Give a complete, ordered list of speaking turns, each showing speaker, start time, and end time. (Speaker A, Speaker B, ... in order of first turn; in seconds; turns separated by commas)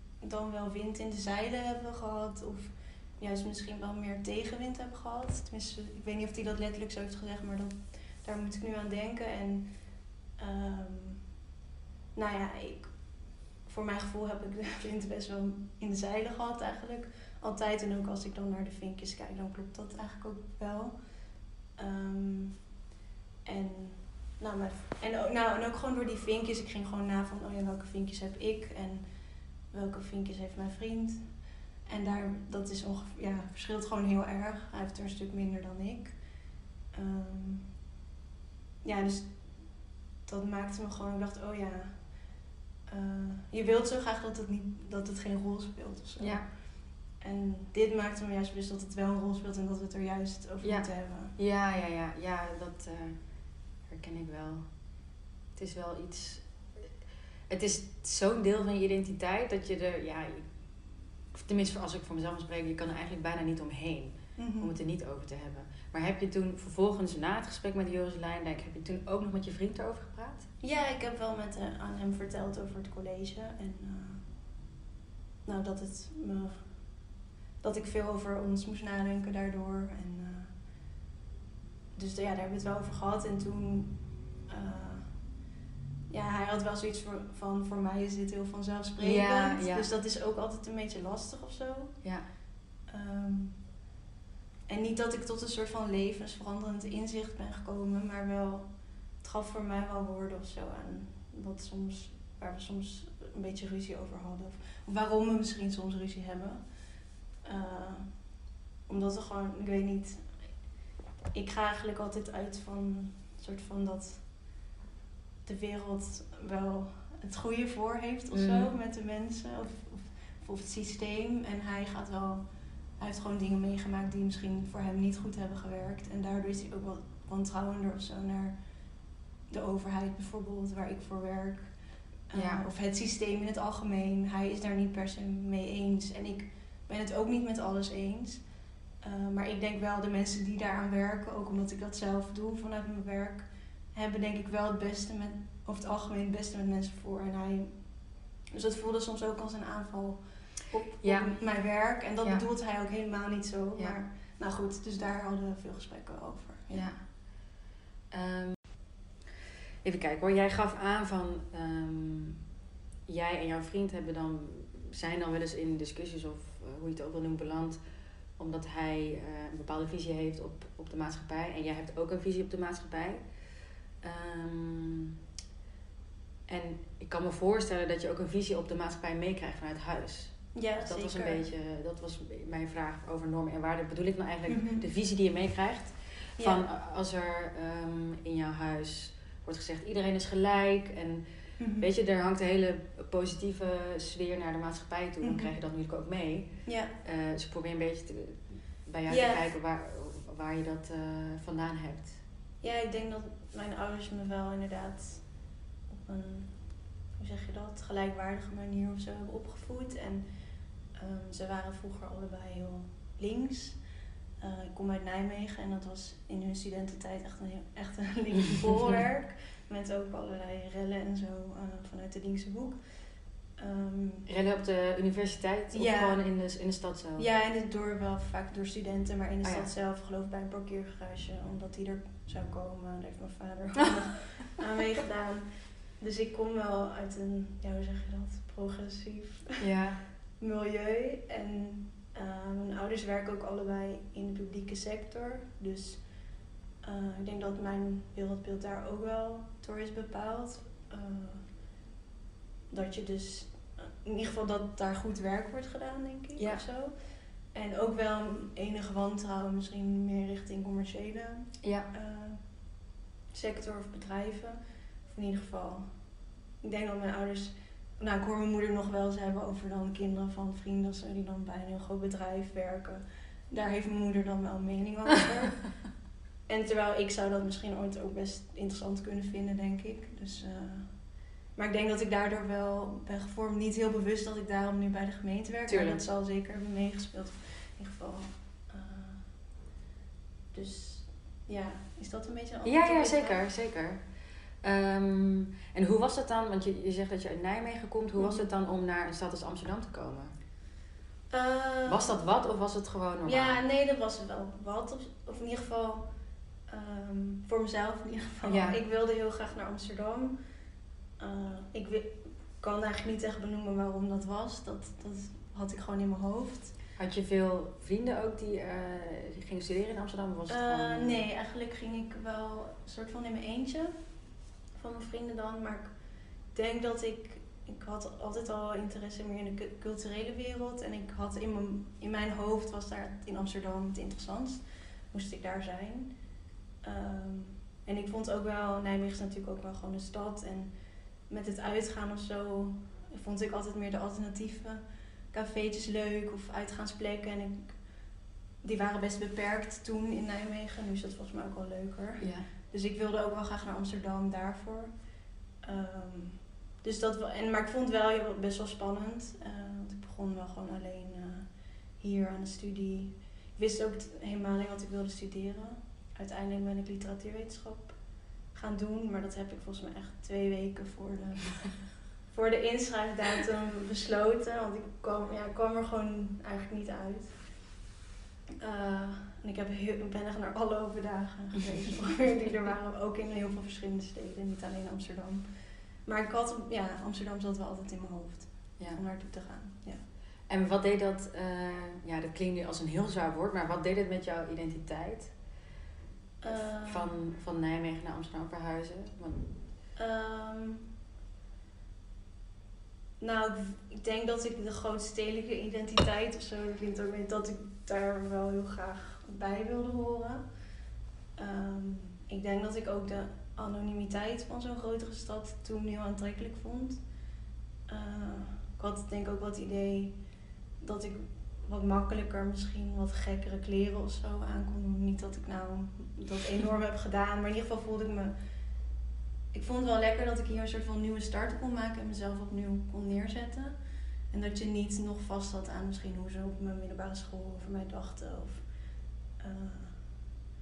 Speaker A: 0.2-9.7, Speaker A: 10.4-11.2, Speaker A: 12.1-12.9, Speaker A: 13.7-20.9, Speaker A: 21.8-22.6, Speaker A: 23.4-29.0, Speaker A: 29.7-31.3, Speaker A: 31.9-36.1, Speaker A: 36.9-37.7, Speaker A: 38.8-39.3, Speaker A: 40.3-41.9, Speaker A: 42.9-46.4, Speaker B: 46.2-46.5, Speaker A: 47.2-51.3, Speaker B: 50.6-53.2, Speaker B: 53.9-54.7, Speaker B: 55.5-56.9, Speaker B: 57.5-60.4, Speaker B: 61.3-70.5, Speaker A: 64.4-64.7, Speaker A: 70.6-74.2, Speaker A: 75.4-76.6, Speaker A: 77.6-80.5, Speaker A: 81.9-84.0, Speaker A: 84.5-85.1, Speaker A: 86.1-91.9, Speaker B: 89.0-89.9, Speaker A: 92.9-93.6, Speaker A: 94.7-98.6, Speaker A: 99.2-106.6, Speaker A: 107.4-108.1, Speaker A: 108.9-110.2, Speaker A: 111.3-114.2, Speaker A: 115.5-122.4, Speaker B: 118.3-118.7, Speaker A: 123.0-128.5, Speaker A: 129.5-131.7, Speaker A: 132.3-138.4, Speaker B: 132.3-132.6, Speaker A: 139.0-147.8, Speaker A: 148.5-156.9, Speaker B: 151.0-151.3, Speaker B: 156.7-157.0, Speaker B: 158.1-158.6, Speaker B: 159.8-162.4, Speaker B: 163.1-167.8, Speaker B: 168.4-173.2, Speaker B: 174.0-175.2, Speaker B: 176.5-191.2, Speaker A: 180.5-181.4, Speaker A: 184.5-184.8, Speaker A: 186.4-186.6, Speaker A: 191.6-191.9, Speaker B: 191.8-196.5, Speaker A: 195.2-195.5, Speaker A: 196.7-196.9, Speaker B: 197.0-202.2, Speaker A: 199.1-199.4, Speaker A: 202.6-205.2, Speaker A: 205.9-206.5, Speaker A: 207.2-210.2, Speaker A: 210.9-213.8, Speaker A: 214.4-222.8, Speaker A: 223.6-224.3, Speaker B: 224.3-227.3, Speaker A: 225.7-226.2, Speaker A: 227.2-235.4, Speaker B: 229.4-229.7, Speaker A: 236.0-239.6, Speaker B: 239.6-240.0, Speaker A: 240.4-246.0, Speaker A: 246.8-251.4, Speaker A: 252.7-256.9, Speaker B: 256.4-256.6, Speaker A: 257.5-262.4, Speaker B: 261.6-261.9, Speaker A: 263.3-264.6, Speaker A: 265.1-265.9, Speaker A: 266.6-275.7, Speaker A: 276.5-280.9, Speaker A: 281.5-289.2, Speaker B: 285.7-286.0, Speaker A: 290.5-293.4, Speaker B: 292.6-294.0, Speaker B: 294.6-300.3, Speaker A: 298.2-298.5, Speaker A: 301.3-302.1, Speaker B: 301.9-303.6, Speaker A: 303.2-306.0, Speaker A: 306.7-310.4, Speaker B: 308.4-308.8, Speaker A: 311.2-316.7, Speaker B: 317.0-321.2, Speaker A: 320.5-323.9, Speaker A: 324.8-325.9, Speaker A: 326.5-336.1, Speaker A: 336.8-340.7, Speaker A: 341.3-347.7, Speaker A: 348.6-354.9, Speaker B: 352.2-352.5, Speaker A: 355.6-361.5, Speaker A: 362.0-368.0, Speaker A: 368.5-371.7, Speaker A: 372.3-377.4, Speaker A: 378.6-385.4, Speaker A: 386.1-390.0, Speaker B: 390.5-395.3, Speaker A: 396.4-397.1, Speaker B: 396.5-399.5, Speaker A: 400.0-400.9, Speaker A: 403.2-410.4, Speaker A: 411.4-417.0, Speaker A: 417.9-420.1, Speaker A: 420.8-428.3, Speaker A: 429.5-433.7, Speaker A: 434.3-438.6, Speaker A: 439.4-440.0